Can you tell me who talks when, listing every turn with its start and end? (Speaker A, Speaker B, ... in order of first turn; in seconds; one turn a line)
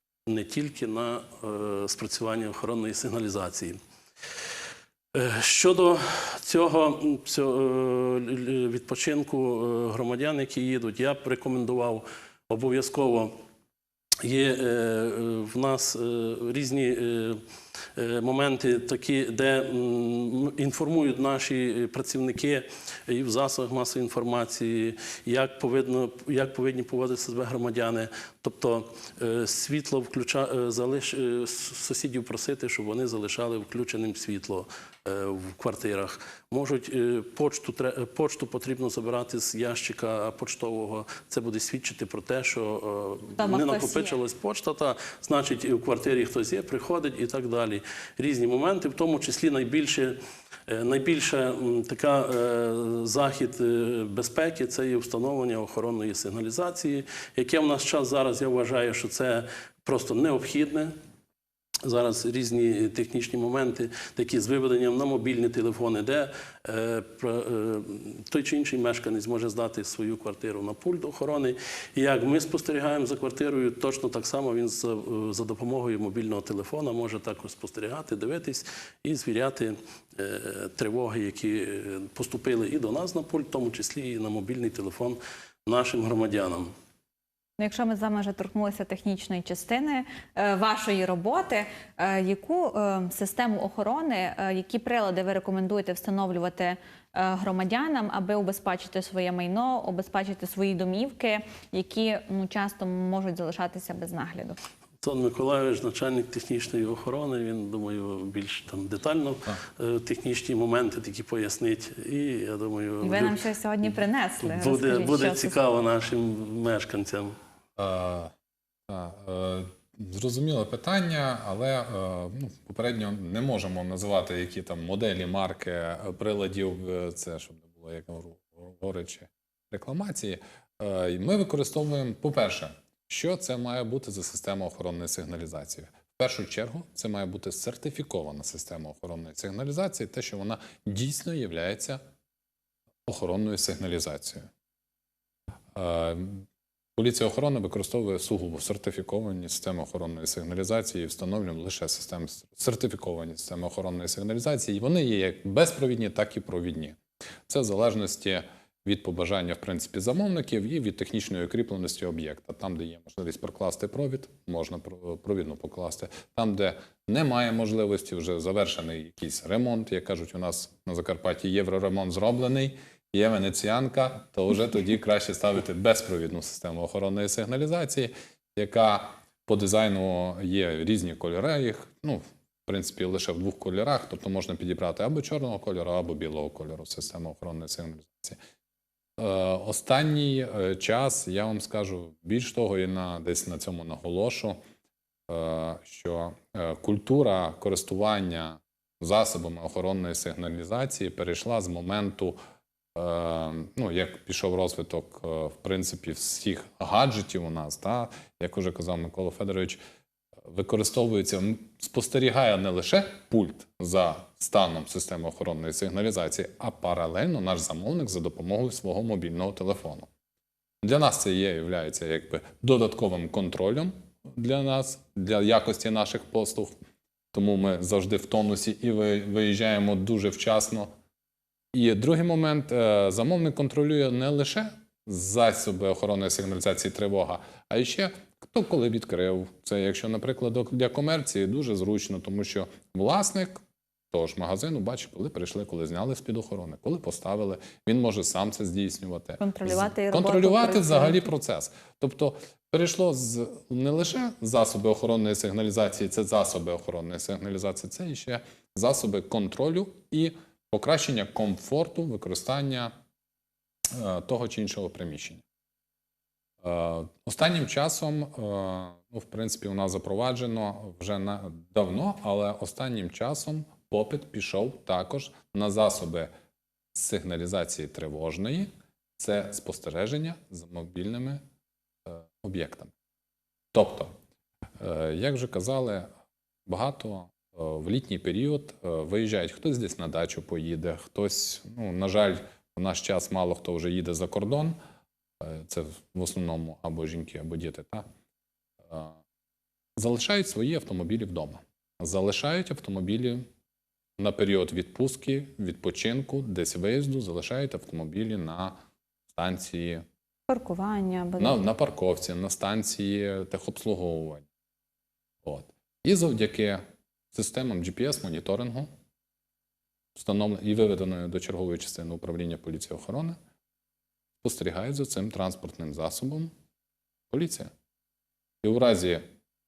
Speaker A: 0.3-3.8
Speaker A: 5.1-13.3
Speaker A: 14.2-17.4
Speaker A: 18.0-60.9
Speaker B: 43.4-44.2
Speaker A: 61.8-86.7
Speaker B: 87.6-104.6
Speaker A: 105.0-113.4
Speaker B: 113.0-115.5
Speaker A: 114.4-117.4
Speaker C: 117.8-118.3
Speaker C: 118.9-142.0
Speaker C: 143.1-144.5
Speaker C: 145.8-146.4
Speaker C: 147.0-157.0
Speaker C: 157.5-188.4
Speaker C: 189.2-194.6
Speaker C: 195.3-202.4
Speaker C: 202.9-209.8
Speaker C: 210.4-220.1
Speaker C: 220.8-226.8
Speaker C: 227.3-230.9
Speaker C: 231.7-243.6
Speaker C: 244.1-262.9
Speaker B: 249.4-251.2
Speaker C: 263.9-265.4
Speaker C: 266.6-276.3
Speaker C: 276.9-281.4
Speaker C: 282.1-282.9
Speaker C: 283.7-284.1
Speaker C: 284.8-286.1
Speaker C: 286.7-294.8
Speaker C: 295.4-298.1
Speaker C: 298.9-299.2
Speaker C: 300.0-303.5
Speaker C: 304.2-308.8
Speaker C: 309.3-310.0
Speaker B: 310.5-311.6
Speaker C: 311.4-314.5
Speaker C: 315.4-316.8
Speaker C: 317.3-318.9
Speaker C: 320.1-323.4
Speaker C: 324.4-326.5
Speaker C: 327.3-327.7
Speaker C: 328.6-329.2